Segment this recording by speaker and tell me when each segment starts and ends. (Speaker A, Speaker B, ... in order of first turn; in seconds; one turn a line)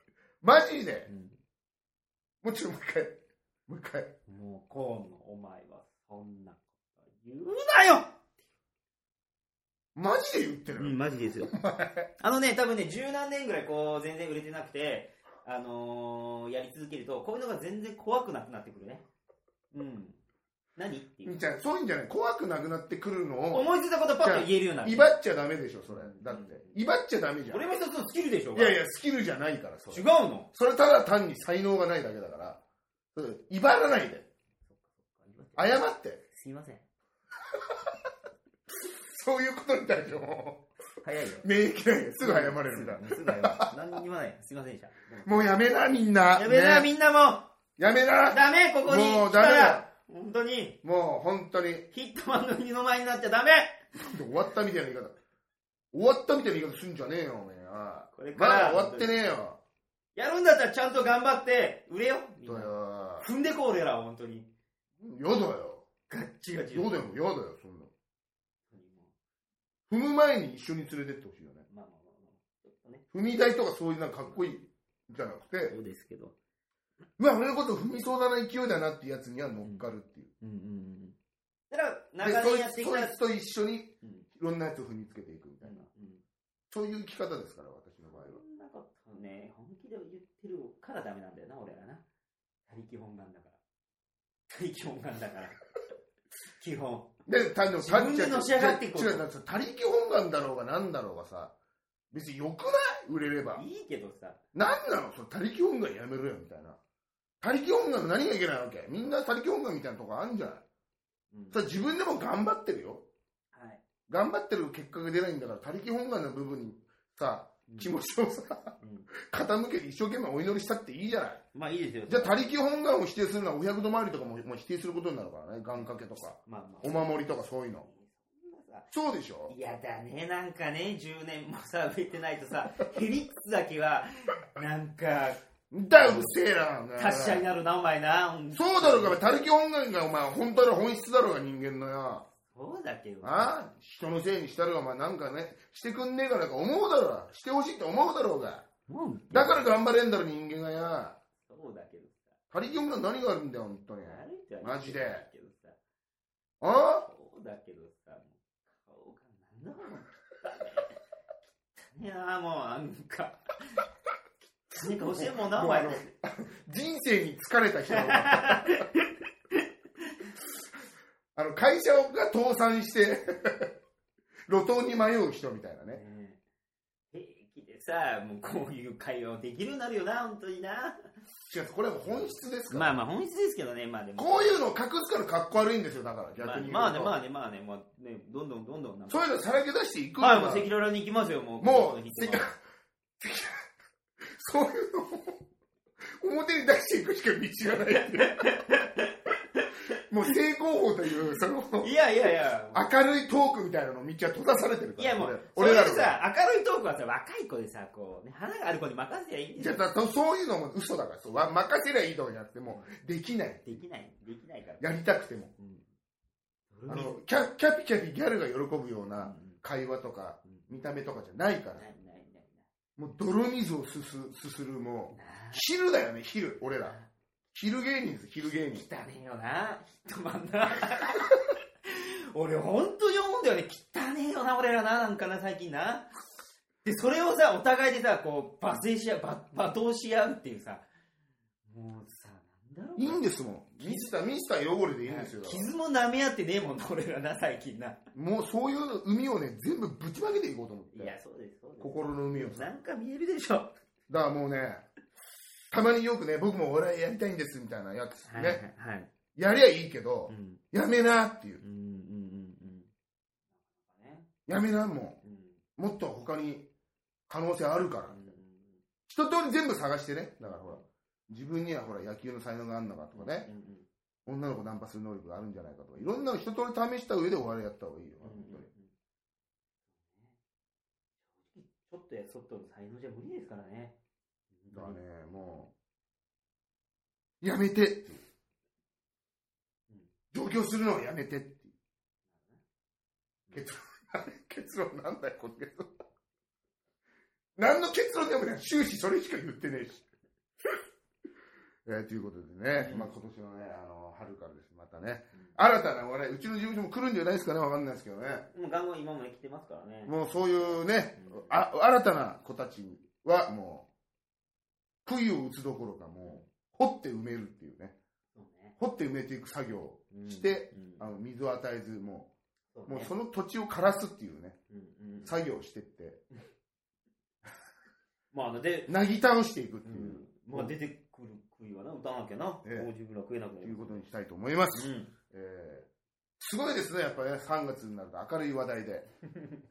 Speaker A: 0.4-1.1
Speaker B: 1.1-1.4
Speaker A: 2.4-4.1
Speaker B: 4.3-8.1
Speaker A: 9.9-12.1
Speaker B: 10.7-11.5
Speaker B: 12.2-19.0
Speaker B: 19.7-20.2
Speaker B: 20.8-21.4
Speaker A: 21.2-23.7
Speaker B: 23.5-25.1
Speaker A: 24.2-27.7
Speaker B: 25.9-26.8
Speaker B: 27.5-28.8
Speaker A: 28.5-32.6
Speaker B: 29.9-30.5
Speaker A: 33.1-34.3
Speaker B: 34.7-36.8
Speaker A: 35.5-36.2
Speaker A: 38.8-40.6
Speaker B: 41.0-41.5
Speaker A: 41.4-43.7
Speaker B: 42.2-45.5
Speaker A: 45.2-46.9
Speaker B: 46.3-47.5
Speaker A: 47.8-49.9
Speaker B: 48.3-50.8
Speaker A: 50.8-51.9
Speaker B: 51.9-53.8
Speaker A: 53.9-55.2
Speaker A: 55.9-59.6
Speaker B: 58.1-59.3
Speaker B: 60.1-64.5
Speaker A: 62.4-63.3
Speaker A: 65.0-65.8
Speaker B: 66.1-67.0
Speaker A: 66.7-67.9
Speaker B: 68.7-69.1
Speaker A: 69.9-71.7
Speaker B: 71.7-73.0
Speaker A: 73.1-75.7
Speaker B: 75.7-76.3
Speaker A: 77.2-80.3
Speaker B: 80.4-81.2
Speaker B: 81.7-83.2
Speaker A: 82.2-85.9
Speaker B: 85.6-86.2
Speaker A: 86.7-88.4
Speaker B: 88.1-92.0
Speaker B: 92.7-93.6
Speaker B: 94.5-95.6
Speaker B: 96.6-97.1
Speaker A: 97.2-101.5
Speaker B: 97.8-99.2
Speaker A: 102.1-103.6
Speaker B: 103.5-104.4
Speaker A: 104.5-106.8
Speaker A: 107.4-110.6
Speaker B: 111.3-111.6
Speaker A: 111.5-113.0
Speaker B: 113.5-113.8
Speaker A: 114.1-121.4
Speaker B: 117.7-117.9
Speaker B: 118.8-119.1
Speaker B: 121.5-122.5
Speaker A: 122.1-127.9
Speaker B: 126.5-127.2
Speaker B: 127.9-128.9
Speaker A: 128.9-129.5
Speaker B: 129.5-135.4
Speaker A: 135.7-137.4
Speaker B: 135.9-136.4
Speaker B: 136.9-139.2
Speaker A: 138.5-142.3
Speaker B: 142.4-143.5
Speaker A: 143.2-148.7
Speaker B: 148.9-149.7
Speaker A: 149.3-151.2
Speaker B: 151.4-152.3
Speaker A: 152.5-155.2
Speaker B: 154.0-155.8
Speaker A: 156.6-157.1
Speaker B: 157.0-161.0
Speaker B: 161.8-163.8
Speaker B: 164.7-166.1
Speaker A: 164.9-168.8
Speaker B: 167.9-170.2
Speaker A: 171.3-173.7
Speaker A: 174.5-176.0
Speaker B: 175.9-176.4
Speaker B: 177.1-181.1
Speaker A: 181.5-182.9
Speaker B: 182.1-184.6
Speaker A: 184.2-187.2
Speaker B: 186.4-189.2
Speaker A: 189.1-190.7
Speaker B: 190.2-192.5
Speaker A: 191.6-192.6
Speaker A: 193.2-193.6
Speaker A: 194.3-195.4
Speaker A: 196.2-198.6
Speaker B: 197.6-199.7
Speaker A: 200.1-201.9
Speaker B: 201.8-202.9
Speaker A: 202.7-206.1
Speaker B: 205.0-209.8
Speaker A: 209.6-213.8
Speaker B: 213.6-214.9
Speaker A: 214.8-215.5
Speaker B: 215.6-215.8
Speaker B: 216.7-217.2
Speaker A: 216.9-221.9
Speaker B: 219.2-219.6
Speaker B: 221.8-222.7
Speaker A: 223.0-227.0
Speaker B: 225.1-225.6
Speaker A: 227.5-228.9
Speaker B: 228.7-236.1
Speaker B: 236.8-240.8
Speaker B: 241.7-243.2
Speaker A: 243.0-245.7
Speaker B: 243.8-244.1
Speaker B: 245.0-248.0
Speaker A: 248.1-251.2
Speaker B: 250.9-253.7
Speaker A: 251.8-252.7
Speaker A: 254.1-254.8
Speaker A: 255.7-258.6
Speaker B: 258.2-259.1
Speaker A: 259.3-261.6
Speaker B: 260.3-260.6
Speaker B: 261.6-262.9
Speaker B: 263.7-264.3
Speaker A: 264.5-265.2
Speaker B: 265.2-265.6
Speaker A: 265.8-266.7
Speaker A: 267.3-268.4
Speaker B: 268.1-268.8
Speaker A: 269.1-273.5
Speaker B: 270.4-270.8
Speaker B: 273.1-273.9
Speaker A: 274.2-278.7
Speaker B: 278.2-278.9
Speaker B: 281.4-283.9
Speaker B: 284.5-285.0
Speaker A: 284.7-285.7
Speaker A: 287.4-288.2
Speaker A: 290.3-291.7
Speaker B: 292.3-292.6
Speaker A: 293.5-295.9
Speaker A: 297.6-300.0
Speaker A: 301.9-308.5
Speaker B: 302.8-303.1
Speaker B: 308.5-311.5
Speaker A: 310.0-313.9
Speaker A: 315.0-317.9
Speaker B: 318.3-318.8
Speaker A: 318.8-322.3
Speaker B: 320.1-321.1
Speaker B: 322.7-323.1
Speaker A: 322.9-324.6
Speaker B: 324.7-325.3
Speaker A: 325.2-326.2
Speaker B: 328.3-328.9
Speaker A: 328.9-330.7
Speaker B: 329.9-334.1
Speaker A: 333.6-335.9
Speaker B: 334.7-335.1
Speaker A: 336.4-339.1